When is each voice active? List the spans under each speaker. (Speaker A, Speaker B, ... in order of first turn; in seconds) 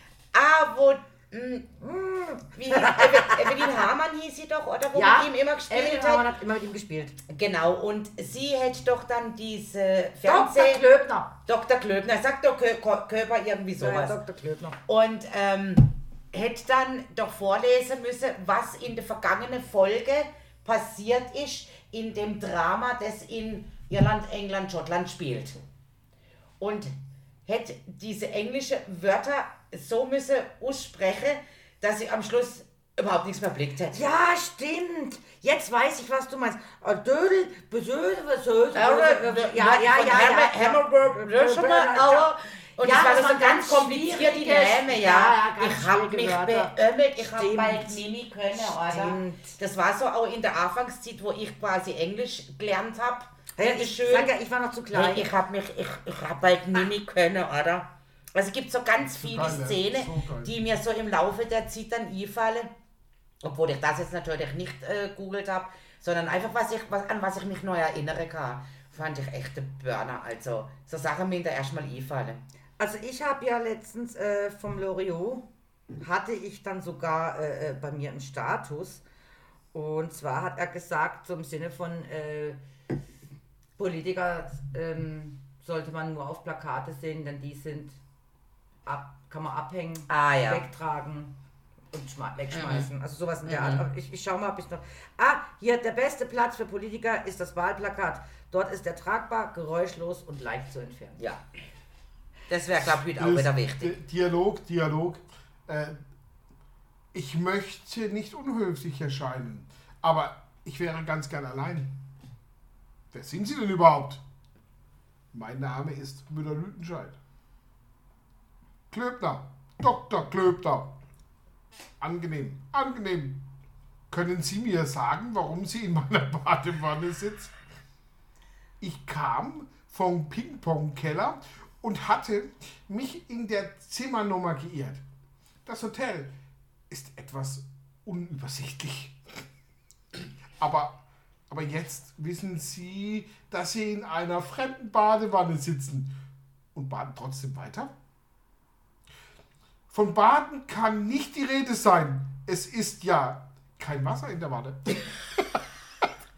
Speaker A: 0.3-1.9, 2.5-6.2, 7.3-10.8, 11.5-14.2, 14.9-25.6, 26.6-26.9, 27.5-34.0, 38.8-54.3, 54.9-62.7, 63.4-72.4, 90.1-90.6, 92.5-92.9, 93.5-93.8, 102.5-104.0
Speaker B: 1.8-3.8, 4.9-7.2, 10.2-11.3, 13.8-14.8, 33.9-46.7, 47.3-48.0, 48.5-49.5, 53.6-55.3, 72.8-75.5, 76.0-79.0, 79.7-82.6, 83.8-88.0, 88.8-91.3, 91.9-101.2
Speaker C: 59.1-60.5, 102.8-106.0, 107.1-112.0, 113.1-114.2, 115.3-117.2, 118.9-121.0, 122.0-123.5, 124.1-127.5, 128.8-135.0, 135.7-136.3, 136.9-139.2, 140.6-146.1, 146.7-147.9, 149.9-156.1